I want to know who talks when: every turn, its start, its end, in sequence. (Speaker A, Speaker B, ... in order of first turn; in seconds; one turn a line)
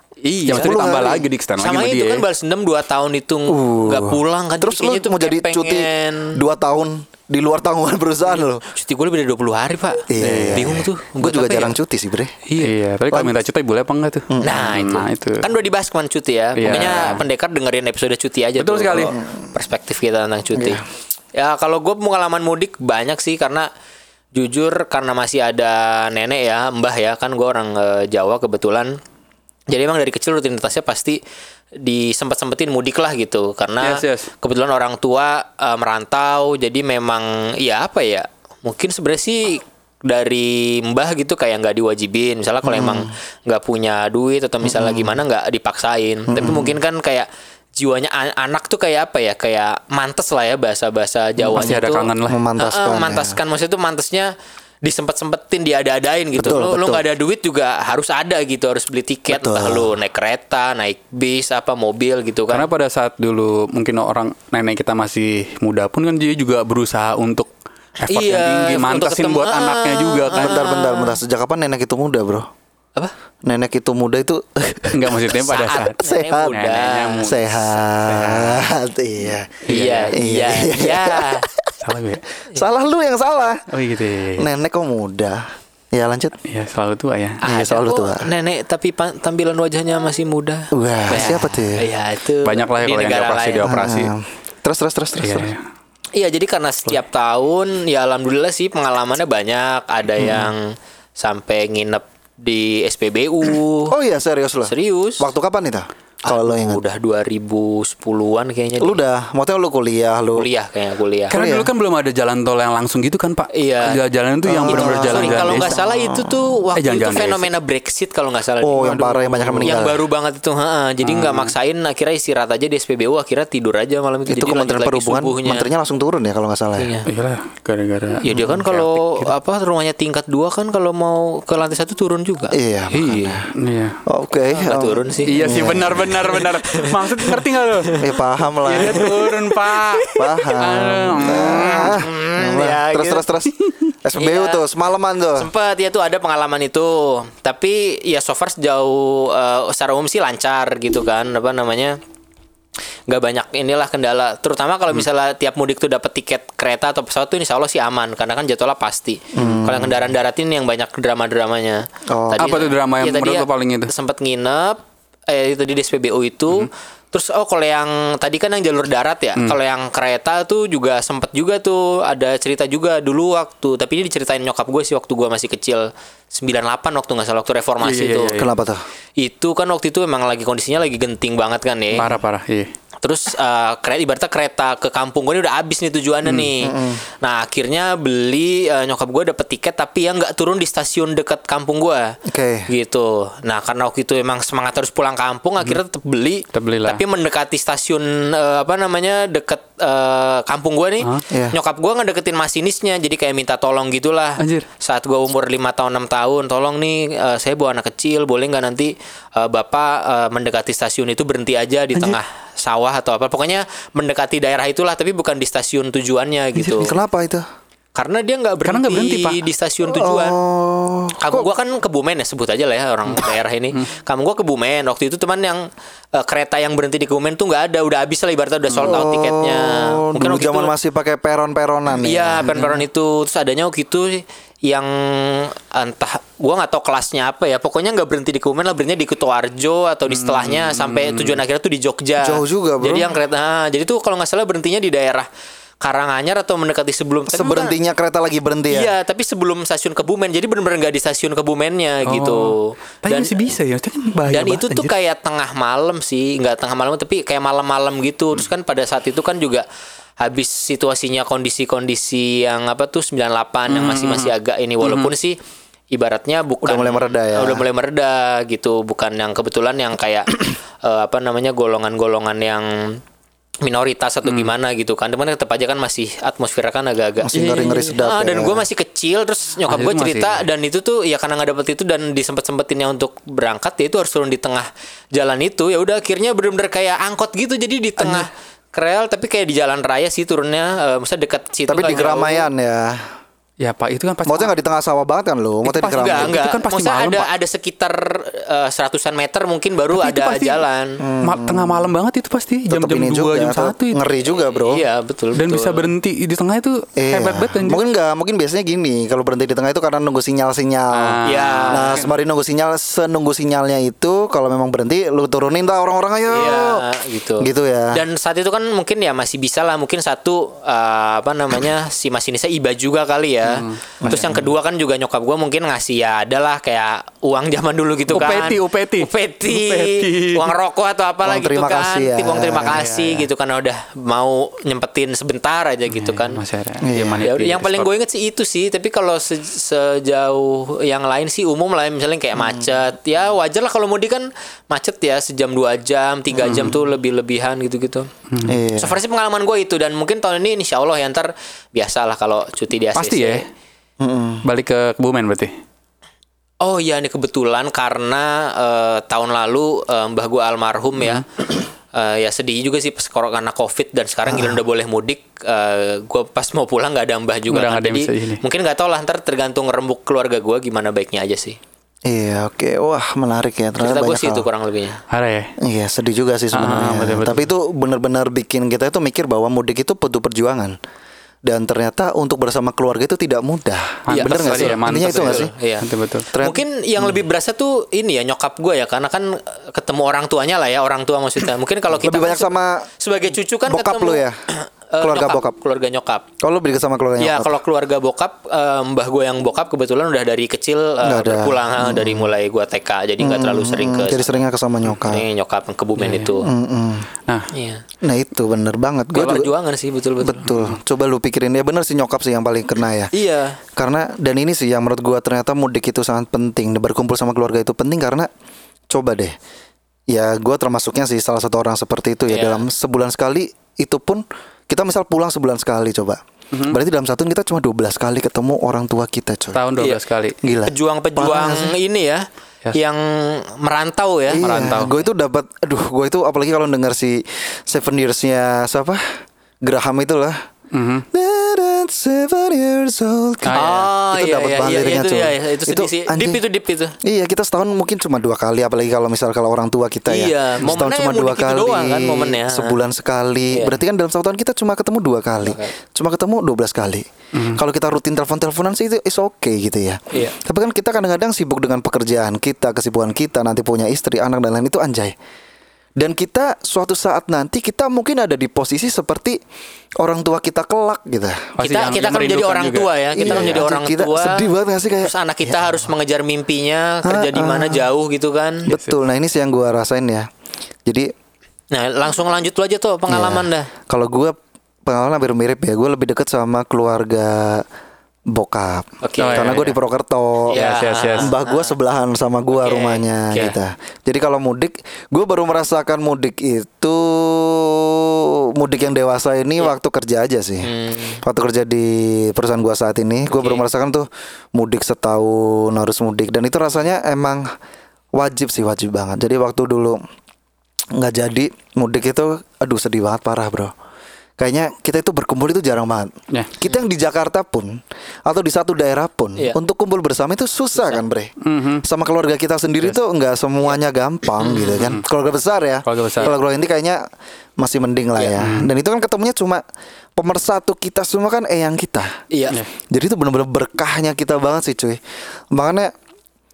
Speaker A: 0.3-0.9
Speaker B: 0.5-2.2
Speaker C: 0.5-1.3
Speaker A: 1.6-6.4
Speaker C: 3.5-8.6
Speaker A: 8.6-11.7
Speaker C: 10.1-12.4
Speaker B: 10.2-10.8
Speaker B: 12.6-15.4
Speaker C: 14.3-14.6
Speaker A: 14.4-20.8
Speaker B: 16.6-17.2
Speaker B: 18.6-19.2
Speaker C: 20.6-20.8
Speaker A: 21.4-23.7
Speaker A: 24.4-28.9
Speaker A: 29.7-31.2
Speaker A: 31.8-47.3
Speaker B: 33.8-34.3
Speaker C: 42.6-43.1
Speaker C: 44.6-45.2
Speaker C: 46.3-46.8
Speaker A: 47.8-54.3
Speaker B: 51.5-52.4
Speaker C: 52.3-53.4
Speaker A: 54.9-62.7
Speaker C: 56.4-57.0
Speaker C: 59.3-59.9
Speaker B: 62.5-67.5
Speaker B: 68.0-70.6
Speaker A: 68.0-71.2
Speaker C: 70.3-72.5
Speaker C: 73.5-75.3
Speaker B: 74.9-76.0
Speaker A: 75.4-77.3
Speaker C: 76.0-76.6
Speaker B: 76.5-78.7
Speaker C: 77.2-81.9
Speaker B: 79.7-80.1
Speaker A: 79.7-81.5
Speaker B: 81.8-82.2
Speaker C: 82.5-83.7
Speaker B: 83.7-84.5
Speaker C: 84.4-86.3
Speaker B: 86.5-87.4
Speaker A: 87.4-93.8
Speaker C: 87.4-88.3
Speaker C: 90.7-91.8
Speaker B: 92.4-94.1
Speaker C: 93.6-95.5
Speaker B: 95.2-95.6
Speaker A: 96.2-103.9
Speaker C: 100.2-100.5
Speaker C: 103.9-106.8
Speaker A: 104.7-105.3
Speaker A: 106.2-109.0
Speaker C: 108.8-110.5
Speaker A: 110.4-111.3
Speaker B: 111.3-115.7
Speaker C: 111.3-111.7
Speaker A: 113.5-114.0
Speaker C: 114.5-116.4
Speaker A: 114.6-119.0
Speaker B: 116.8-117.4
Speaker C: 118.6-120.0
Speaker B: 118.8-119.8
Speaker A: 119.6-125.7
Speaker B: 121.0-121.5
Speaker C: 124.3-126.9
Speaker A: 126.8-127.1
Speaker B: 127.1-129.3
Speaker A: 128.2-133.3
Speaker C: 132.5-133.5
Speaker B: 132.9-134.0
Speaker C: 134.1-136.1
Speaker A: 134.5-138.1
Speaker B: 135.2-138.0
Speaker C: 138.0-139.1
Speaker B: 138.7-142.0
Speaker A: 138.7-140.4
Speaker C: 140.2-143.5
Speaker A: 141.2-143.3
Speaker C: 144.0-145.5
Speaker A: 144.2-144.7
Speaker A: 145.4-152.0
Speaker A: 153.1-178.4
Speaker C: 159.3-160.0
Speaker C: 162.1-162.6
Speaker B: 162.4-163.9
Speaker B: 177.8-178.5
Speaker C: 178.4-178.8
Speaker A: 179.2-182.1
Speaker B: 181.9-182.7
Speaker A: 183.0-192.2
Speaker B: 186.2-186.5
Speaker C: 186.6-187.0
Speaker C: 192.3-192.7
Speaker A: 192.7-217.0
Speaker B: 196.5-197.0
Speaker C: 201.3-201.6
Speaker B: 204.4-204.7
Speaker C: 216.6-217.4
Speaker A: 217.9-220.4
Speaker B: 218.6-219.4
Speaker C: 219.9-221.5
Speaker A: 221.2-230.7
Speaker C: 228.8-232.6
Speaker A: 232.0-245.3
Speaker B: 240.1-241.4
Speaker C: 242.2-243.1
Speaker A: 245.8-247.8
Speaker C: 247.3-248.9
Speaker A: 248.7-253.3
Speaker B: 252.1-254.9
Speaker A: 254.3-259.7
Speaker A: 260.2-265.4
Speaker B: 263.7-265.1
Speaker A: 265.9-270.3
Speaker C: 266.6-267.6
Speaker A: 270.8-273.0
Speaker A: 273.6-292.5
Speaker B: 274.3-274.5
Speaker C: 277.2-278.7
Speaker B: 277.4-277.9
Speaker B: 279.7-280.5
Speaker B: 288.0-288.2
Speaker C: 291.7-293.0
Speaker B: 293.6-294.5
Speaker C: 294.3-296.4
Speaker B: 295.6-297.3
Speaker A: 295.9-301.0
Speaker B: 299.9-300.6
Speaker C: 301.0-301.9
Speaker B: 301.2-304.1
Speaker C: 302.7-304.8
Speaker A: 304.3-305.9
Speaker B: 305.4-307.8
Speaker C: 307.0-316.8
Speaker B: 310.9-312.0
Speaker A: 311.2-312.1
Speaker A: 316.3-336.4
Speaker C: 317.4-318.0
Speaker B: 323.5-324.1
Speaker C: 324.0-324.4
Speaker B: 328.1-330.5
Speaker C: 331.2-332.8
Speaker B: 332.7-333.3
Speaker B: 335.9-337.9
Speaker C: 336.8-337.3
Speaker A: 337.2-348.1
Speaker B: 346.4-346.8
Speaker B: 348.3-348.6
Speaker C: 348.5-349.0
Speaker A: 348.8-353.5
Speaker B: 353.0-353.5
Speaker C: 354.0-354.4
Speaker B: 354.4-355.5
Speaker A: 356.6-371.6
Speaker C: 364.3-364.6
Speaker B: 367.5-368.4
Speaker C: 372.1-374.5
Speaker A: 373.8-375.0
Speaker B: 375.1-375.5
Speaker C: 375.6-380.8
Speaker B: 376.5-377.5
Speaker C: 381.5-385.5
Speaker B: 384.1-386.3
Speaker A: 384.1-385.9
Speaker C: 386.3-386.6
Speaker A: 386.4-396.2
Speaker C: 391.9-392.9
Speaker C: 393.7-394.4
Speaker C: 395.0-395.6
Speaker C: 396.4-397.6
Speaker A: 397.2-404.4
Speaker C: 401.0-402.3
Speaker C: 403.2-405.2
Speaker A: 405.0-406.5
Speaker B: 406.0-406.4
Speaker C: 406.4-407.1
Speaker A: 407.5-407.8
Speaker C: 408.0-409.5
Speaker A: 409.1-410.4
Speaker C: 410.2-413.1
Speaker A: 413.1-413.6
Speaker C: 413.8-418.3
Speaker C: 418.9-419.4
Speaker C: 420.1-429.6
Speaker A: 422.3-422.6
Speaker B: 426.5-426.8
Speaker B: 429.6-430.4
Speaker C: 430.4-431.8
Speaker A: 430.7-432.2
Speaker A: 432.7-434.5
Speaker C: 434.3-439.0
Speaker B: 434.4-434.9
Speaker C: 439.6-440.4
Speaker B: 440.7-441.1
Speaker C: 441.1-446.4
Speaker B: 443.4-443.9
Speaker A: 443.5-446.9
Speaker C: 447.0-465.2
Speaker A: 450.1-452.7
Speaker A: 455.4-455.7
Speaker B: 457.3-457.6
Speaker C: 466.0-469.4
Speaker C: 470.0-471.5
Speaker B: 471.6-473.6
Speaker A: 471.6-474.5
Speaker C: 473.2-475.9
Speaker A: 475.0-478.7
Speaker C: 477.1-477.9
Speaker C: 478.7-480.3
Speaker C: 480.9-481.1
Speaker A: 481.7-483.7
Speaker C: 483.1-487.6
Speaker C: 488.3-490.6
Speaker A: 489.0-489.6
Speaker B: 489.2-489.8
Speaker A: 490.5-491.7
Speaker B: 490.5-491.3
Speaker C: 491.2-500.7
Speaker A: 492.6-493.6
Speaker A: 500.6-501.2
Speaker C: 501.2-507.5
Speaker A: 503.3-503.6
Speaker C: 508.2-510.0
Speaker C: 511.0-513.7
Speaker C: 514.4-521.3
Speaker B: 521.4-521.8
Speaker C: 521.8-527.0
Speaker A: 524.4-524.9
Speaker B: 525.9-526.3
Speaker C: 527.6-529.6
Speaker B: 528.4-528.7
Speaker C: 530.2-532.1
Speaker A: 532.3-532.6
Speaker C: 532.9-535.0
Speaker C: 535.5-535.9